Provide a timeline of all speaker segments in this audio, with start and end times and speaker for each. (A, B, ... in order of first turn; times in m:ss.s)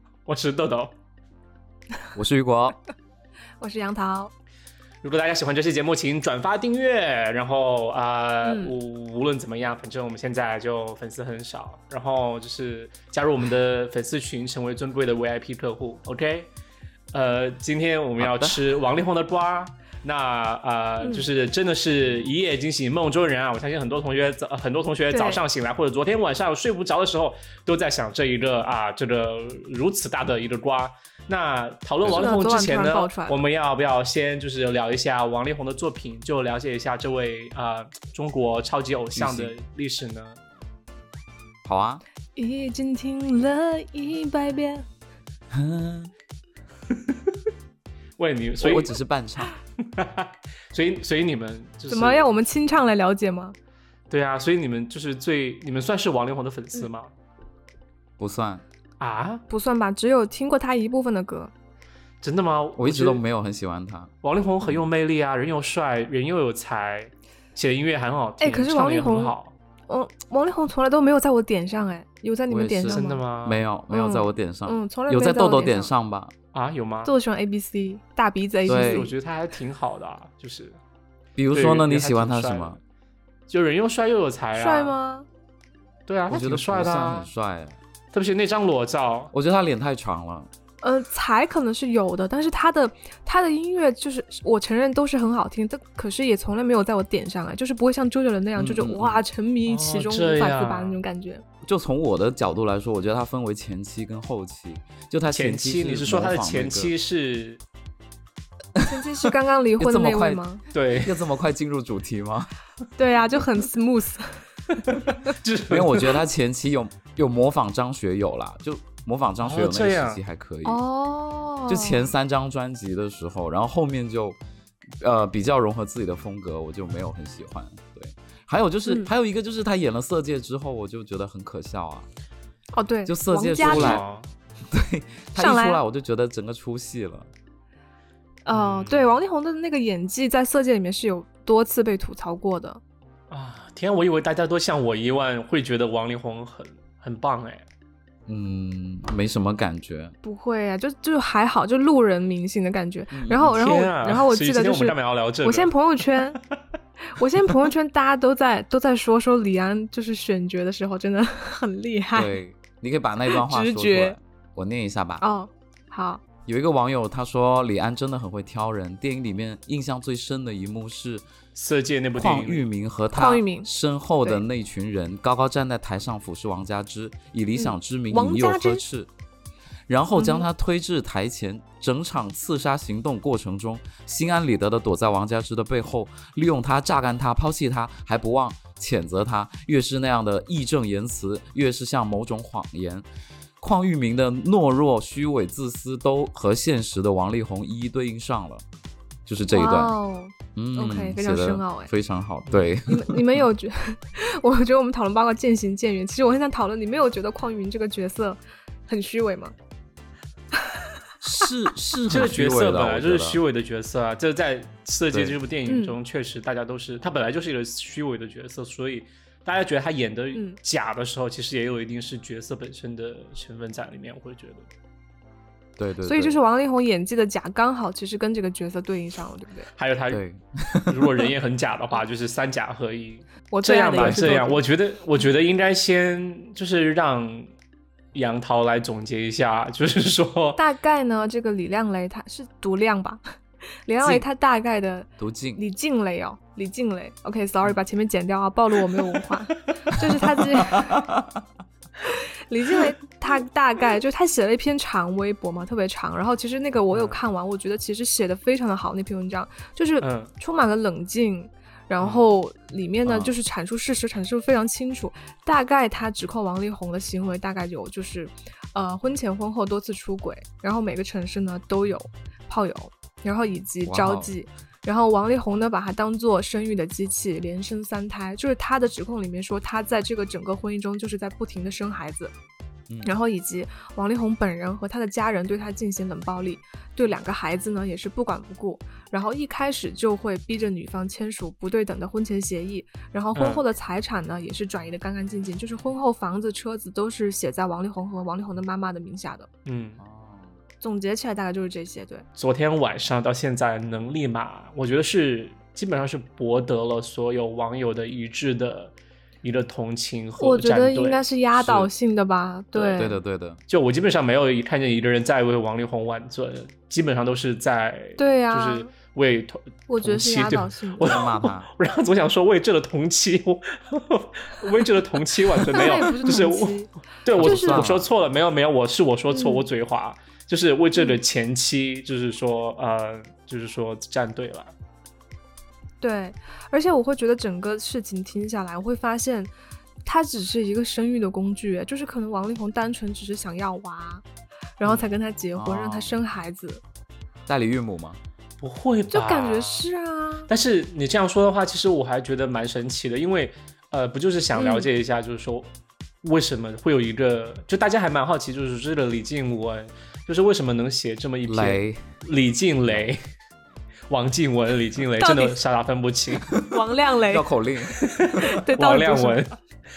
0:00.2-0:00.9 A
0:02.1-0:02.8 B
0:03.6-0:04.3 C
0:05.0-0:16.5 A
0:08.4-0:08.7 C
0:17.1-0:40.4 A
0:18.2-0:18.6 B
0:21.0-0:21.2 C
0:25.1-0:25.4 C
0:32.0-0:32.3 B
0:32.1-0:33.4 C
0:39.1-0:39.5 B
0:41.6-0:42.0 B
0:42.4-0:44.8 C
0:45.5-0:46.1 B
0:48.2-0:48.9 A
0:48.6-0:49.5 B
0:49.8-0:52.4 A
0:51.9-0:53.5 C
0:54.1-0:57.1 A
0:58.2-0:58.6 B
0:59.0-0:59.4 A
0:59.5-1:01.5 C
1:02.2-1:03.2 A
1:02.8-1:04.1 B
1:04.2-1:09.6 A
1:08.4-1:09.3 C
1:09.9-1:13.2 C
1:12.5-1:16.3 B
1:12.9-1:13.6 A
1:13.9-1:15.9 C
1:16.5-1:17.1 A
1:17.0-1:19.1 C
1:18.6-1:19.1 B
1:18.7-1:20.8 A
1:21.4-1:22.8 B
1:21.5-1:22.8 A
1:23.5-1:24.9 A
1:24.5-1:25.3 C
1:26.1-1:27.3 A
1:26.3-1:27.8 B
1:28.1-1:29.3 A
1:29.3-1:30.5 B
1:30.8-1:41.4 C
1:38.6-1:39.2 B
1:39.6-1:41.0 A
1:41.6-1:46.9 B
1:45.3-1:47.6 A
1:48.8-1:50.4 B
1:48.8-1:50.6 C
1:50.7-1:51.2 A
1:51.0-1:52.5 B
1:53.0-1:54.4 C
1:54.9-1:56.2 A
1:55.7-2:00.8 B
1:59.4-2:00.2 A
2:00.6-2:02.1 C
2:01.7-2:04.4 B
2:05.0-2:12.1 B
2:12.7-2:14.0 C
2:13.0-2:14.0 B
2:13.6-2:14.3 A
2:14.7-2:17.3 B
2:15.4-2:15.8 C
2:18.4-2:22.8 C
2:18.5-2:19.1 A
2:23.3-2:27.6 A
2:28.3-2:30.1 B
2:30.2-2:36.4 C
2:33.1-2:33.6 B
2:33.4-2:36.4 A
2:37.1-2:42.4 C
2:42.1-2:45.2 B
2:43.3-2:44.2 C
2:45.2-2:46.2 C
2:46.4-2:51.2 B
2:51.6-2:52.7 A
2:52.2-2:59.1 B
2:53.1-2:53.7 C
2:57.5-2:58.8 C
2:59.9-3:13.0 B
3:00.2-3:00.4 C
3:13.6-3:18.6 B
3:19.2-3:20.0 B
3:19.5-3:21.9 C
3:20.5-3:23.4 B
3:22.5-3:22.8 A
3:22.9-3:29.5 C
3:31.2-3:33.4 B
3:32.1-3:44.7 A
3:35.1-3:35.4 B
3:35.7-3:36.0 C
3:45.8-3:46.4 B
3:46.0-3:49.7 C
3:49.8-3:50.2 A
3:50.1-3:51.3 B
3:50.9-3:57.5 A
3:53.5-3:54.6 C
3:54.0-3:54.3 B
3:58.1-4:00.6 A
4:00.6-4:03.2 C
4:03.8-4:11.1 C
4:05.2-4:05.6 B
4:10.5-4:11.4 B
4:12.0-4:42.3 C
4:20.0-4:20.3 A
4:22.0-4:22.2 A
4:23.0-4:23.3 B
4:33.8-4:34.3 B
4:43.0-4:59.5 C
4:53.3-4:53.6 A
4:59.6-5:00.0 A
5:00.0-5:00.6 B
5:00.8-5:02.2 C
5:02.4-5:11.9 A
5:10.4-5:13.2 C
5:12.7-5:13.0 A
5:13.0-5:13.6 B
5:13.7-5:34.7 A
5:18.2-5:18.9 C
5:19.9-5:21.1 C
5:21.0-5:21.7 B
5:25.7-5:27.9 C
5:27.4-5:28.0 B
5:29.3-5:29.7 C
5:36.0-5:39.5 C
5:40.0-5:44.2 C
5:44.8-5:46.8 C
5:45.5-5:46.2 B
5:47.5-5:48.2 B
5:48.6-5:49.9 A
5:49.1-5:50.5 C
5:50.5-5:55.7 A
5:54.5-5:54.9 C
5:56.2-6:03.2 A
6:01.4-6:02.0 B
6:02.8-6:03.1 B
6:04.1-6:06.6 A
6:05.2-6:05.6 C
6:06.6-6:07.5 C
6:07.3-6:08.4 B
6:07.9-6:09.5 A
6:08.4-6:09.4 C